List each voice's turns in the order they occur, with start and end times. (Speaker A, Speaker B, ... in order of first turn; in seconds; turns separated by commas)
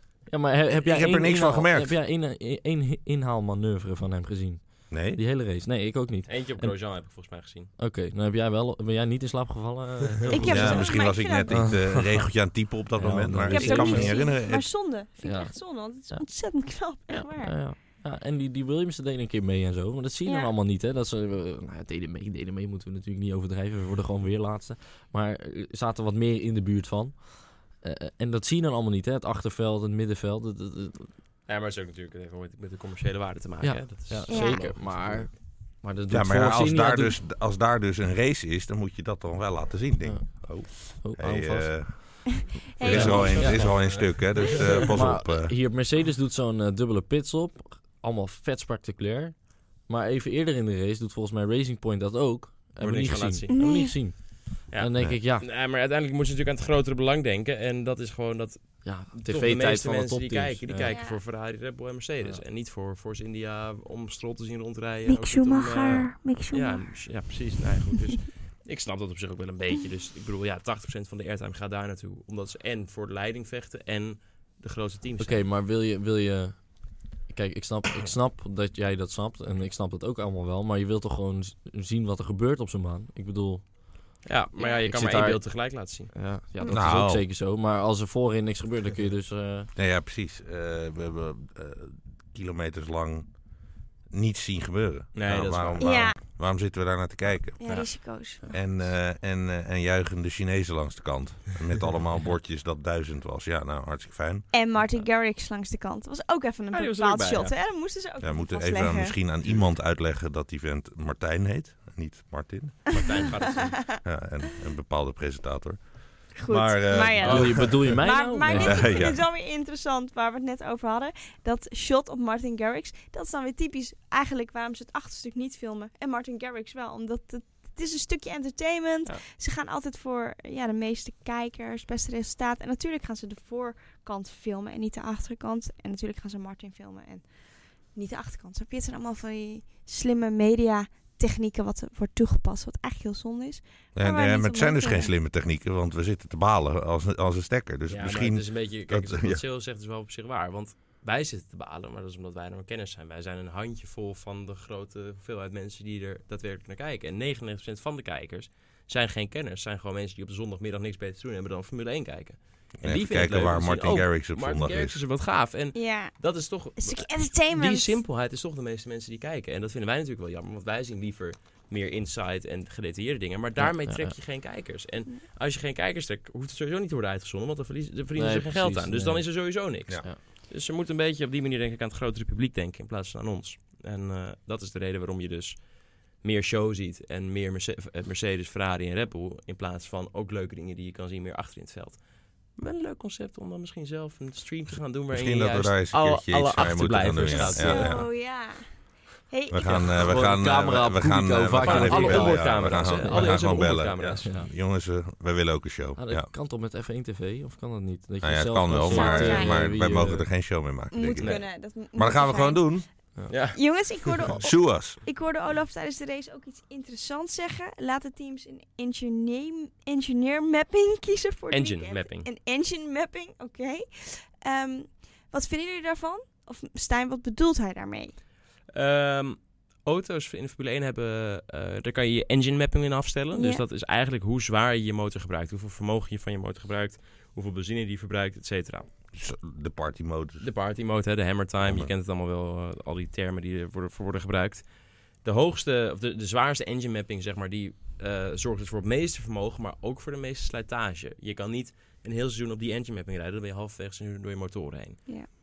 Speaker A: 0.3-6.8, Speaker B: 0.8-1.9, Speaker B: 4.9-5.2, Speaker C: 6.3-7.7, Speaker A: 7.8-10.8, Speaker C: 10.2-10.9, Speaker D: 10.3-11.8, Speaker B: 10.4-14.7, Speaker A: 11.5-12.3, Speaker A: 12.9-14.2, Speaker D: 13.5-17.6, Speaker A: 15.2-15.5, Speaker A: 17.1-31.1, Speaker D: 20.3-20.5, Speaker C: 31.5-35.3, Speaker A: 33.6-37.2, Speaker D: 34.3-34.7, Speaker B: 36.1-45.6, Speaker A: 40.0-42.2, Speaker D: 42.8-43.5, Speaker C: 42.8-44.9, Speaker A: 42.9-55.5, Speaker C: 52.8-53.6, Speaker D: 53.5-54.0, Speaker C: 54.7-75.5, Speaker A: 58.8-61.0, Speaker D: 60.8-61.2, Speaker D: 65.1-66.9, Speaker A: 75.2-83.8, Speaker C: 84.2-86.1, Speaker D: 84.6-84.9, Speaker A: 84.9-89.7, Speaker B: 86.7-87.2, Speaker B: 89.8-93.3, Speaker B: 94.1-97.9, Speaker C: 95.2-96.2, Speaker D: 95.8-96.2, Speaker D: 97.6-98.6, Speaker B: 98.5-104.5, Speaker D: 104.5-109.2, Speaker C: 106.7-107.5, Speaker B: 108.2-113.3, Speaker C: 112.9-113.8, Speaker D: 113.0-114.0, Speaker B: 114.0-118.0, Speaker D: 116.4-137.3, Speaker C: 117.2-117.8, Speaker A: 117.2-119.1, Speaker B: 118.5-119.2, Speaker D: 137.9-145.1, Speaker B: 143.9-149.4, Speaker C: 147.9-192.0, Speaker B: 162.8-165.0, Speaker D: 165.8-166.1, Speaker D: 166.8-168.0, Speaker A: 173.6-174.2, Speaker A: 178.2-179.4, Speaker C: 192.6-198.0, Speaker B: 195.1-198.1, Speaker D: 197.4-198.7, Speaker D: 199.3-199.8, Speaker B: 199.5-206.3, Speaker C: 199.7-200.1, Speaker A: 200.0-203.4, Speaker C: 201.6-204.3, Speaker A: 206.0-210.3, Speaker B: 208.2-211.4, Speaker D: 208.9-209.7, Speaker D: 210.9-212.8, Speaker C: 211.2-211.4, Speaker B: 211.9-212.9, Speaker C: 213.3-214.3, Speaker D: 213.5-228.2, Speaker B: 214.3-215.0, Speaker C: 221.5-222.3, Speaker C: 228.7-238.9, Speaker D: 233.3-233.6, Speaker B: 239.1-240.5, Speaker C: 240.4-244.7, Speaker B: 241.6-241.9, Speaker C: 245.2-255.0